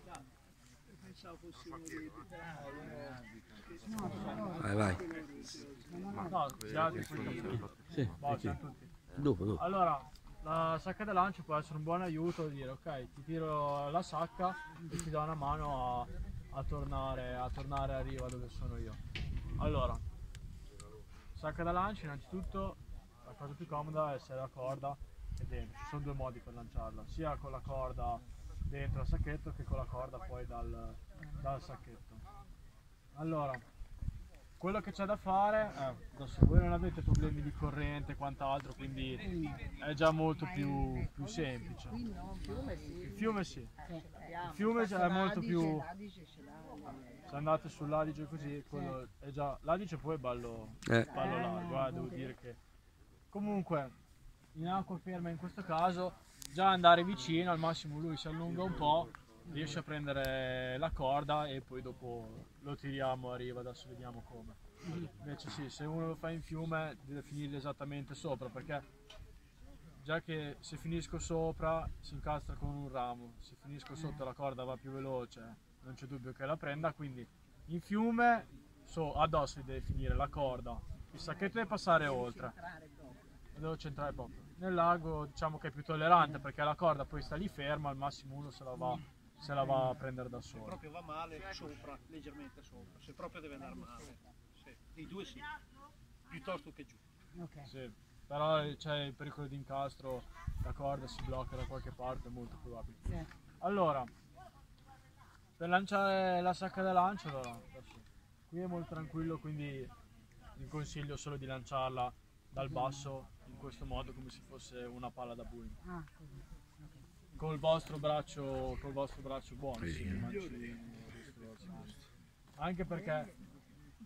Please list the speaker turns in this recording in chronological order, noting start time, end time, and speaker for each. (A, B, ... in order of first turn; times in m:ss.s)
0:01.0-0:03.1 A
0:03.6-0:05.9 A
0:04.6-0:05.0 B
0:06.2-0:08.9 C
0:08.0-0:08.5 B
0:09.2-0:09.6 B
0:09.5-0:19.0 C
0:19.6-0:20.0 C
0:21.3-0:32.2 C
0:33.1-0:33.6 C
0:34.6-0:42.0 C
0:43.0-0:43.7 C
0:44.4-0:45.9 C
0:47.3-0:52.6 C
0:53.3-0:53.9 C
0:54.5-1:08.8 C
1:10.0-1:22.6 C
1:22.6-1:23.2 A
1:23.5-1:30.8 C
1:30.6-1:35.5 A
1:36.3-1:37.0 A
1:37.6-1:44.1 C
1:45.6-1:49.9 C
1:50.6-1:55.8 C
1:57.4-2:02.0 C
1:59.8-2:00.2 B
2:02.6-2:03.3 C